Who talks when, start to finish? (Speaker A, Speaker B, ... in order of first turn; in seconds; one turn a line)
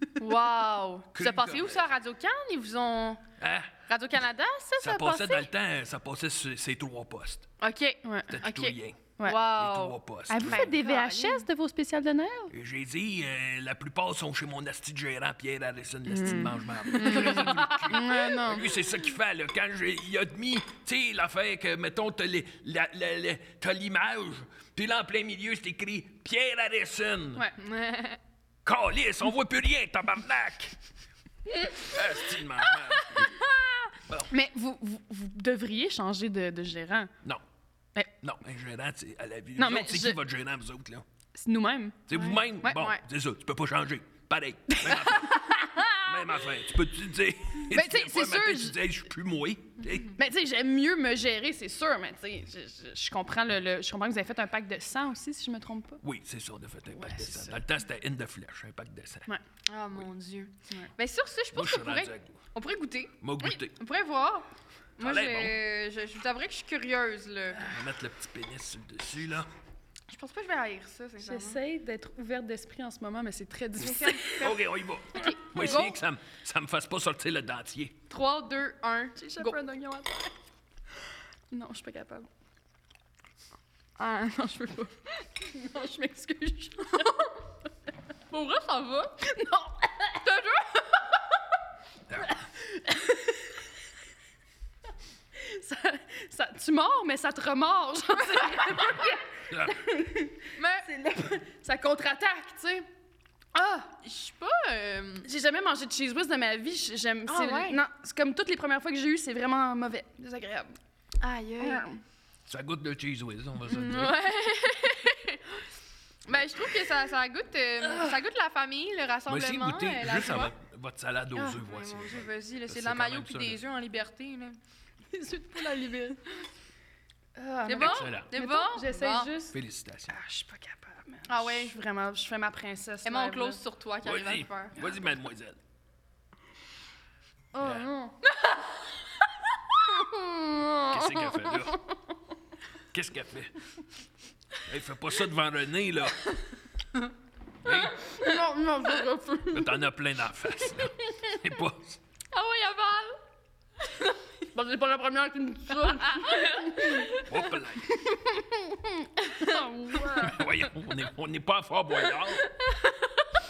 Speaker A: 0.2-3.2
Speaker B: 1.1-1.9
Speaker B: 3.4-3.7
Speaker A: 3.9-5.5
Speaker B: 4.8-7.5
Speaker A: 7.6-11.5
Speaker C: 8.0-8.3
Speaker B: 8.3-10.7
Speaker C: 10.3-12.5
Speaker B: 12.5-27.5
Speaker C: 16.1-18.7
Speaker A: 17.0-18.1
Speaker A: 27.6-28.2
Speaker B: 28.6-30.8
Speaker B: 31.8-33.4
Speaker A: 32.7-33.9
Speaker C: 34.3-37.1
Speaker B: 38.2-41.0
Speaker C: 39.6-40.2
Speaker C: 41.4-42.9
Speaker B: 42.1-50.1
Speaker A: 42.1-43.0
Speaker C: 44.8-46.0
Speaker C: 47.7-48.8
Speaker C: 50.2-56.0
Speaker B: 56.0-59.3
Speaker C: 56.9-57.6
Speaker A: 59.7-64.5
Speaker B: 61.5-62.3
Speaker B: 63.2-63.8
Speaker A: 65.0-67.6
Speaker B: 65.0-65.5
Speaker B: 67.6-69.5
Speaker A: 70.1-71.6
Speaker C: 71.2-74.4
Speaker A: 73.8-74.6
Speaker B: 74.2-78.0
Speaker A: 75.2-76.0
Speaker A: 78.1-79.6
Speaker C: 79.2-80.3
Speaker C: 81.5-82.3
Speaker C: 84.0-87.5
Speaker A: 88.3-89.2
Speaker C: 89.2-90.2
Speaker A: 90.2-91.2
Speaker B: 92.1-92.3
Speaker C: 92.3-93.4
Speaker C: 95.4-102.9
Speaker A: 98.5-99.1
Speaker B: 99.5-99.8
Speaker A: 100.6-100.9
Speaker C: 103.5-103.9
Speaker A: 104.0-105.3
Speaker C: 105.2-110.8
Speaker A: 107.3-107.8
Speaker A: 111.2-111.9
Speaker C: 111.6-112.0
Speaker B: 112.5-114.2
Speaker A: 113.7-115.6
Speaker A: 116.3-120.5
Speaker B: 119.3-123.6
Speaker A: 121.4-124.6
Speaker C: 125.1-126.2
Speaker C: 127.4-129.6
Speaker A: 127.7-129.3
Speaker B: 127.8-128.3
Speaker B: 129.5-130.2
Speaker C: 130.1-133.6
Speaker A: 131.3-131.7
Speaker A: 133.1-134.9
Speaker B: 134.0-135.6
Speaker C: 137.5-138.2
Speaker B: 137.6-137.9
Speaker C: 139.9-141.9
Speaker B: 140.9-141.8
Speaker B: 142.9-143.5
Speaker B: 144.6-146.3
Speaker B: 147.7-148.0
Speaker C: 148.0-149.8
Speaker B: 149.5-152.0
Speaker A: 152.3-153.2
Speaker C: 154.5-157.2
Speaker A: 155.8-157.4
Speaker B: 157.2-157.9
Speaker C: 157.9-160.4
Speaker A: 159.4-160.2
Speaker B: 160.2-162.5
Speaker A: 162.2-163.3